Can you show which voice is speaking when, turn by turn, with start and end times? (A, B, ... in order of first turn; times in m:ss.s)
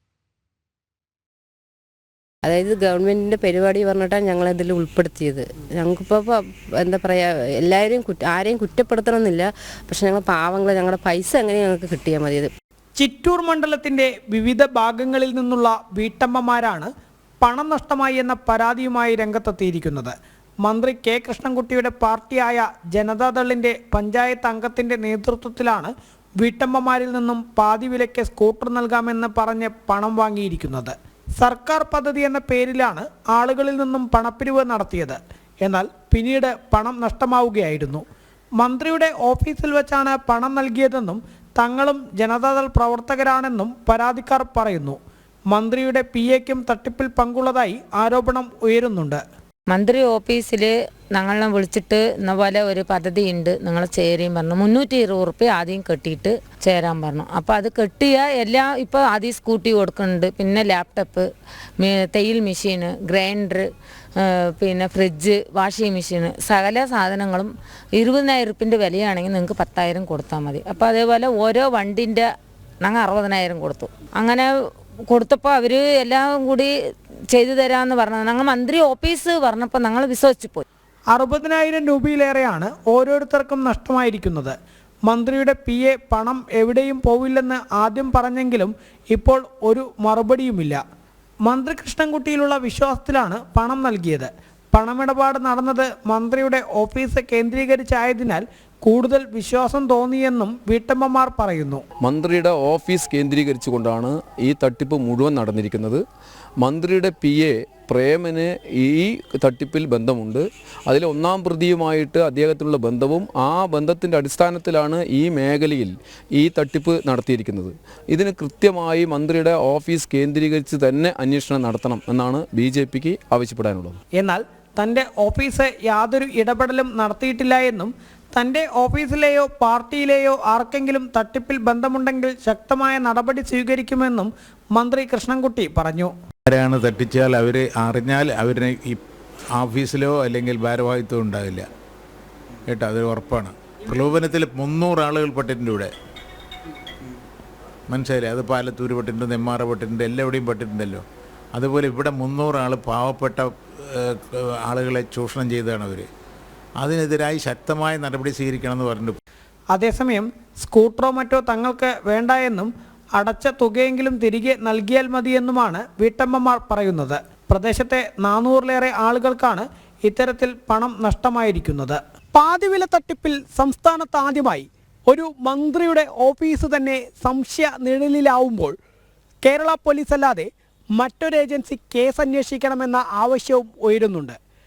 0:02.4-0:12.5 A
0:13.0-0:16.9 B
0:17.4-0:38.0 B
0:38.6-0:45.0 B
0:45.5-0:49.2 B
0:49.7-1:01.3 C
1:01.8-1:03.7 C
1:04.2-1:12.3 C
1:12.8-1:14.5 C
1:15.1-1:16.7 C
1:17.3-1:20.6 C
1:21.1-1:24.5 B
1:25.0-1:30.8 B
1:31.4-1:41.8 B
1:42.0-1:46.0 D
1:46.6-2:04.0 D
2:04.1-2:16.1 B
2:16.5-2:19.0 E
2:19.6-2:21.7 E
2:22.7-2:25.9 E
2:27.9-2:36.1 E
2:36.8-2:39.2 E
2:39.7-2:58.7 B
2:59.4-3:04.4 B